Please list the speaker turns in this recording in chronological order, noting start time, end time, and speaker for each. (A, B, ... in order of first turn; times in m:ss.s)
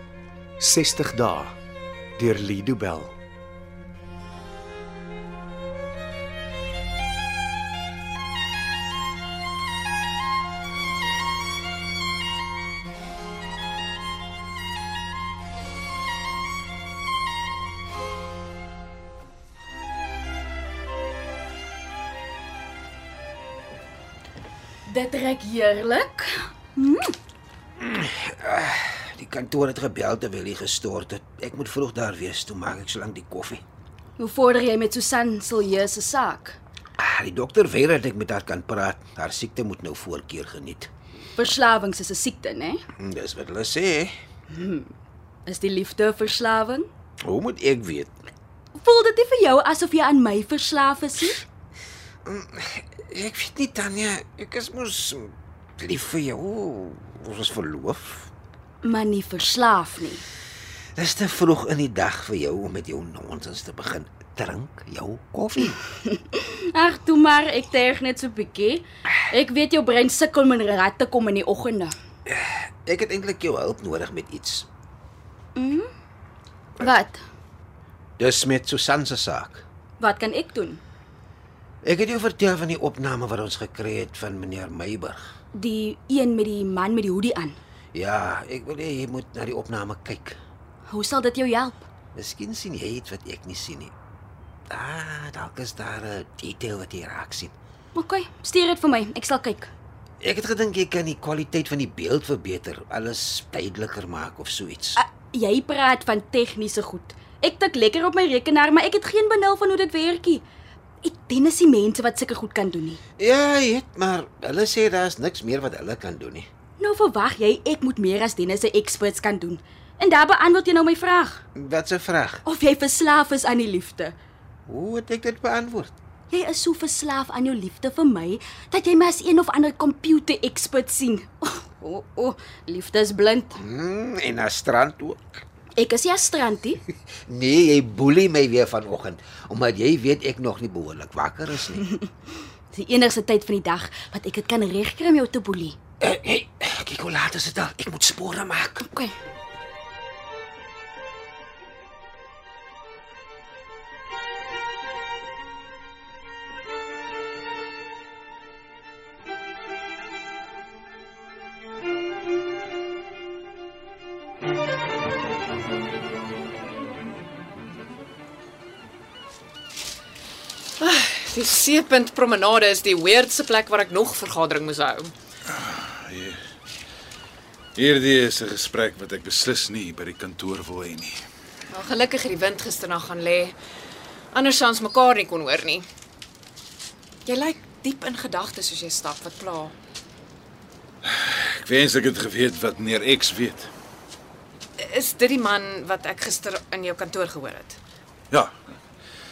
0:00.6-0:01.6 A
0:02.2-0:03.2 A
0:24.9-0:27.2 B
0:27.8-0:33.6 C
0:34.2-0:36.6 B
0:37.0-0:40.9 C
0:41.4-0:42.8 B
0:43.0-0:44.2 C
0:44.5-0:44.9 B
0:45.5-0:46.9 B
0:47.2-0:48.1 C
0:48.8-0:51.4 B
0:52.2-0:58.3 C
0:58.8-1:00.2 B
1:01.0-1:05.8 C
1:06.0-1:12.0 B
1:12.3-1:14.7 C
1:15.6-1:15.9 B
1:16.8-1:17.2 B
1:18.2-1:19.6 C
1:20.0-1:20.8 B
1:21.8-1:25.2 C
1:25.5-1:27.6 B
1:27.9-1:30.4 C
1:30.9-1:31.8 B
1:32.2-1:33.9 C
1:34.7-1:37.5 C
1:37.9-1:39.7 B
1:40.2-1:45.0 C
1:45.0-1:50.4 B
1:51.0-1:53.0 B
1:53.2-1:56.5 C
1:56.8-2:01.4 B
2:01.6-2:02.4 C
2:02.5-2:04.2 B
2:04.7-2:05.9 C
2:06.3-2:13.6 B
2:13.6-2:15.4 C
2:15.8-2:16.8 B
2:17.3-2:21.8 C
2:22.7-2:25.8 B
2:26.0-2:28.9 C
2:28.8-2:29.1 B
2:50.8-2:55.1 D
2:55.5-2:56.4 E
2:57.8-3:01.2 E
3:01.7-3:03.6 D
3:04.3-3:05.9 D
3:07.3-3:09.8 D
3:11.0-3:13.7 E
3:14.8-3:17.8 D